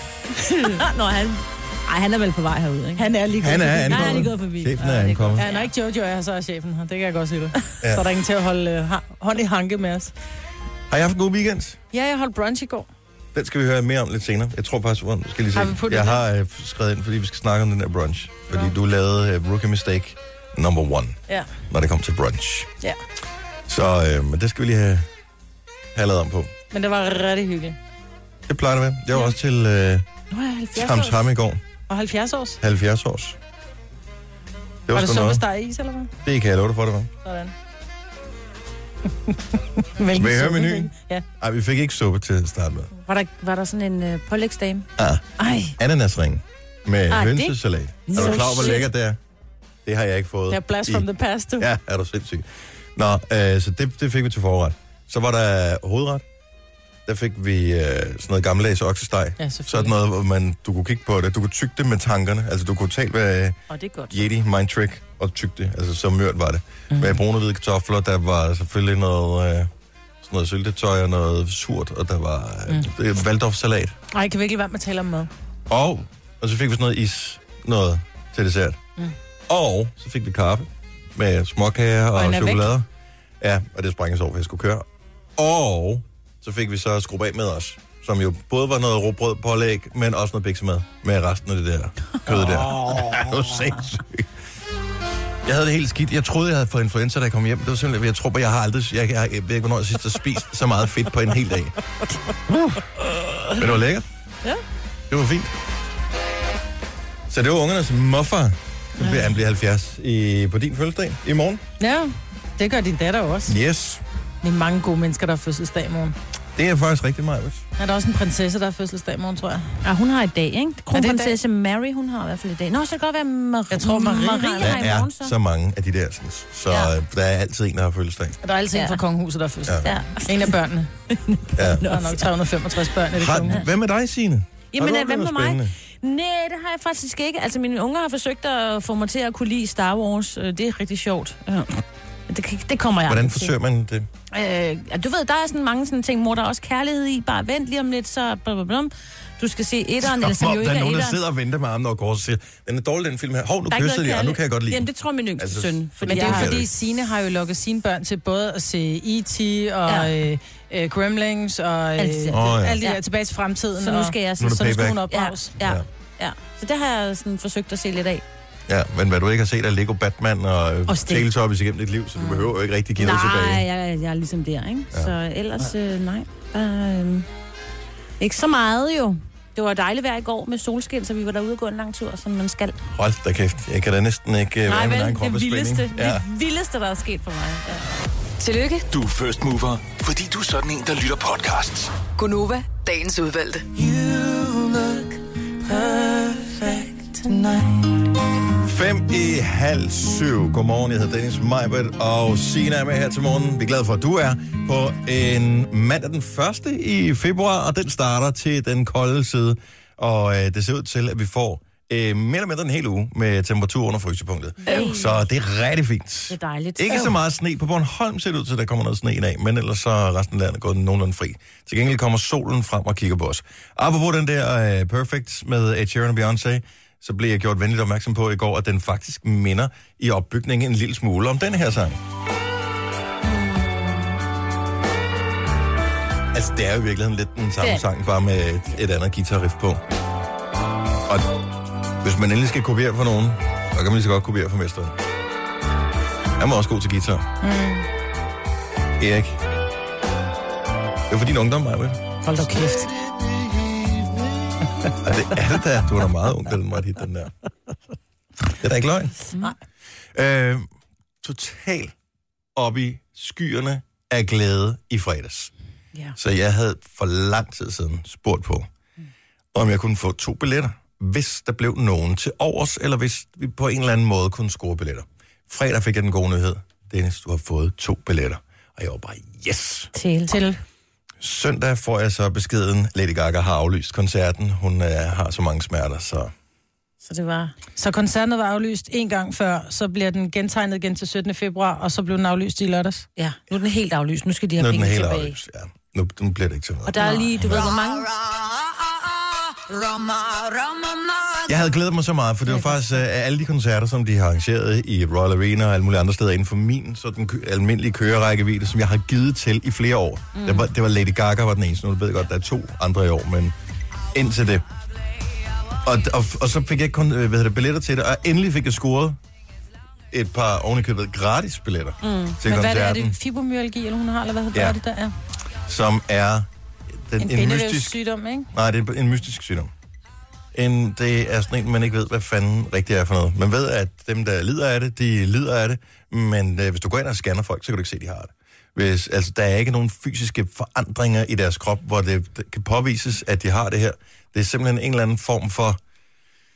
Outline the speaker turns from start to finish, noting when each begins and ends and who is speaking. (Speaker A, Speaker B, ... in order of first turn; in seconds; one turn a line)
Speaker A: 0.4-5.7
Speaker B: 3.0-4.3
Speaker C: 3.4-5.4
Speaker B: 5.4-10.1
Speaker C: 7.8-8.1
Speaker C: 10.9-11.8
Speaker B: 11.9-12.9
Speaker C: 13.3-22.7
Speaker B: 15.5-16.2
Speaker C: 23.7-25.1
Speaker C: 25.9-26.5
Speaker B: 26.7-27.8
Speaker C: 28.5-30.1
Speaker A: 30.3-31.2
Speaker C: 30.7-31.6
Speaker B: 31.9-32.6
Speaker C: 32.6-33.4
Speaker C: 34.9-35.4
Speaker B: 34.9-36.1
Speaker C: 36.2-37.1
Speaker B: 37.2-37.5
Speaker B: 39.2-41.2
Speaker C: 40.1-42.9
Speaker A: 43.0-44.9
Speaker C: 45.0-49.2
Speaker A: 45.4-45.7
Speaker A: 47.1-47.5
Speaker B: 48.1-48.8
Speaker A: 48.1-48.8
Speaker C: 49.8-51.0
Speaker B: 50.5-51.7
Speaker C: 51.6-56.2
Speaker C: 57.0-69.7
Speaker B: 59.4-59.9
Speaker A: 63.7-64.2
Speaker B: 66.9-67.2
Speaker C: 70.2-73.9
Speaker B: 74.1-75.3
Speaker C: 75.7-78.8
Speaker C: 79.5-82.8
Speaker B: 82.2-82.7
Speaker C: 83.4-84.8
Speaker C: 85.4-94.3
Speaker C: 95.4-101.7
Speaker C: 103.5-104.0
Speaker C: 105.1-105.5
Speaker C: 107.3-111.6
Speaker B: 111.8-113.5
Speaker C: 113.5-114.0
Speaker B: 114.4-116.1
Speaker C: 116.5-117.6
Speaker B: 117.8-119.7
Speaker A: 119.8-125.3
Speaker B: 120.9-121.4
Speaker B: 123.7-124.8
Speaker C: 124.6-128.4
Speaker B: 128.4-130.9
Speaker A: 128.7-129.0
Speaker A: 129.8-130.5
Speaker A: 131.1-132.2
Speaker C: 131.6-131.9
Speaker B: 131.8-133.6
Speaker C: 133.1-135.7
Speaker A: 134.7-143.5
Speaker C: 143.1-144.1
Speaker A: 144.3-151.2
Speaker C: 150.0-154.9
Speaker A: 153.7-156.5
Speaker C: 155.4-156.7
Speaker B: 156.0-165.6
Speaker A: 159.9-160.1
Speaker A: 162.0-163.0
Speaker C: 162.3-162.8
Speaker A: 163.8-168.2
Speaker C: 164.4-165.1
Speaker C: 165.6-165.8
Speaker C: 168.7-173.6
Speaker B: 170.9-171.2
Speaker A: 172.2-177.3
Speaker A: 178.2-182.8
Speaker C: 182.9-186.2
Speaker A: 184.7-187.9
Speaker D: 188.4-188.9
Speaker E: 188.9-191.9
Speaker D: 192.1-193.7
Speaker E: 193.8-194.5
Speaker D: 195.7-197.5
Speaker C: 198.6-232.0
Speaker A: 214.6-215.2
Speaker A: 216.3-217.2
Speaker A: 233.2-234.2
Speaker C: 236.3-239.8
Speaker C: 241.1-241.4
Speaker C: 242.0-244.9
Speaker C: 246.4-247.3
Speaker B: 247.4-247.8
Speaker C: 249.0-249.4
Speaker C: 251.1-252.0
Speaker B: 252.2-252.9
Speaker B: 254.7-254.9
Speaker C: 255.0-257.3
Speaker C: 258.6-259.2
Speaker C: 260.1-260.7
Speaker C: 261.2-261.9
Speaker C: 262.6-265.5
Speaker C: 266.2-268.7
Speaker C: 269.5-279.9
Speaker A: 279.9-280.4
Speaker B: 280.3-280.6
Speaker C: 281.2-286.3
Speaker A: 287.0-287.5
Speaker B: 287.8-293.1
Speaker A: 293.2-295.3
Speaker C: 294.6-297.8
Speaker A: 296.9-298.1
Speaker B: 297.0-297.3
Speaker C: 301.5-313.5
Speaker A: 302.5-302.9
Speaker A: 310.4-310.7
Speaker C: 314.1-314.6
Speaker C: 315.8-319.2
Speaker C: 320.1-323.1
Speaker A: 322.0-322.4
Speaker B: 322.4-325.1
Speaker C: 325.7-326.5
Speaker C: 327.1-328.0
Speaker B: 327.2-328.5
Speaker C: 328.5-329.7
Speaker C: 330.5-345.8